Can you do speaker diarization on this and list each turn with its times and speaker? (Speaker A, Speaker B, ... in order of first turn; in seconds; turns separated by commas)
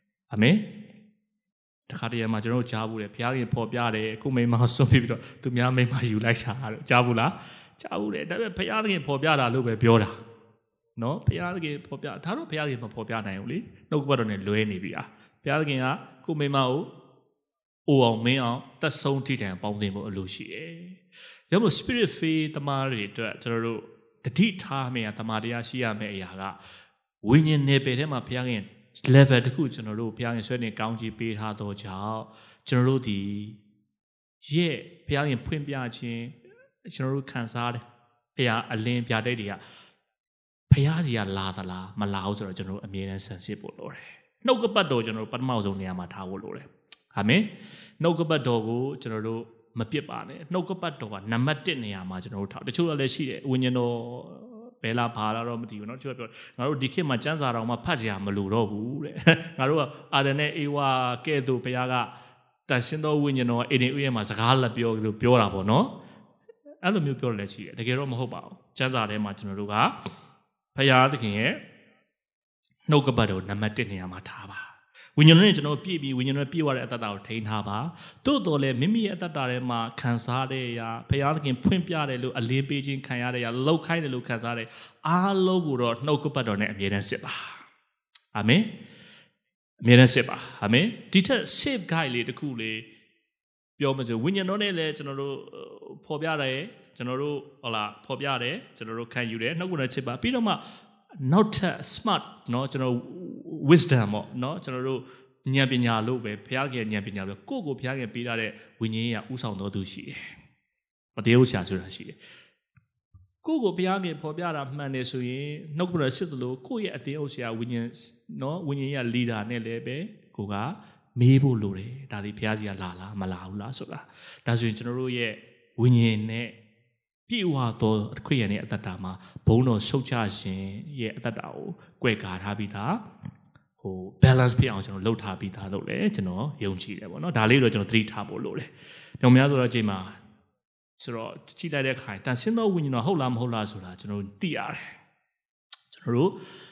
Speaker A: 0.3-0.7, Speaker A: 1.9-10.2, Speaker A: 11.0-16.9, Speaker A: 17.9-26.6, Speaker A: 27.2-33.6, Speaker A: 34.5-37.8, Speaker A: 38.4-39.6, Speaker A: 40.7-47.5, Speaker A: 48.0-62.1, Speaker A: 62.7-66.0, Speaker A: 66.8-69.9, Speaker A: 70.8-71.6, Speaker A: 72.9-87.6, Speaker A: 88.3-88.7, Speaker A: 89.8-92.9, Speaker A: 93.8-100.6, Speaker A: 101.2-110.2, Speaker A: 111.2-112.2, Speaker A: 113.4-126.6, Speaker A: 127.3-133.0, Speaker A: 133.8-138.7, Speaker A: 139.2-140.2, Speaker A: 141.0-144.9, Speaker A: 145.9-146.4